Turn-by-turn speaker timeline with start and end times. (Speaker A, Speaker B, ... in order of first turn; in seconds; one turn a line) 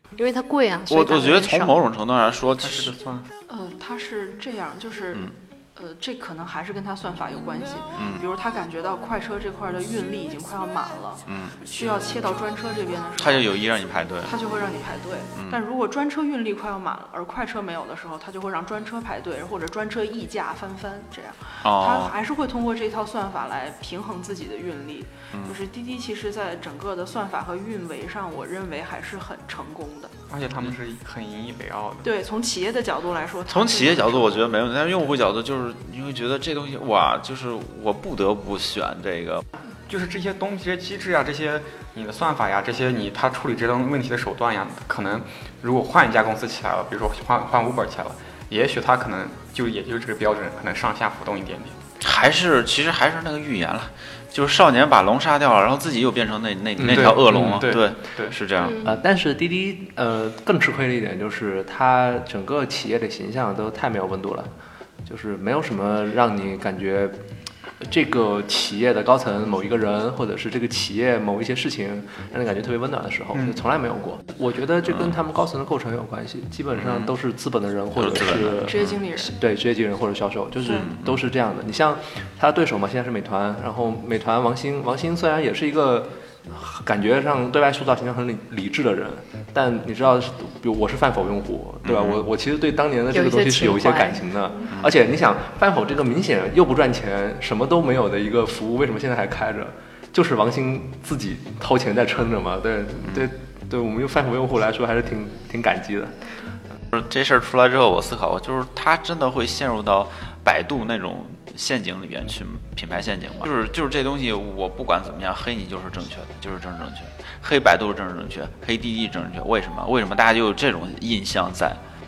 Speaker A: 0.2-1.8
Speaker B: 0.9-3.0
Speaker C: 2.6-3.3
Speaker D: 3.5-13.7
Speaker B: 8.0-8.3
Speaker B: 11.3-11.8
Speaker B: 13.2-14.3
Speaker D: 14.2-30.2
Speaker B: 15.3-15.6
Speaker B: 21.6-22.1
Speaker B: 25.3-25.6
Speaker C: 30.3-32.1
Speaker D: 32.0-34.5
Speaker B: 33.5-39.4
Speaker C: 39.9-51.8
Speaker B: 52.0-58.8
Speaker E: 56.8-57.8
Speaker C: 56.9-58.7
Speaker A: 58.6-59.0
Speaker E: 58.8-64.5
Speaker E: 65.1-67.2
Speaker E: 67.8-106.3
Speaker B: 76.8-77.1
Speaker B: 78.0-79.0
Speaker D: 78.6-79.3
Speaker D: 80.6-80.9
Speaker B: 91.8-92.3
Speaker A: 93.1-94.3
Speaker B: 94.7-95.0
Speaker B: 106.9-121.8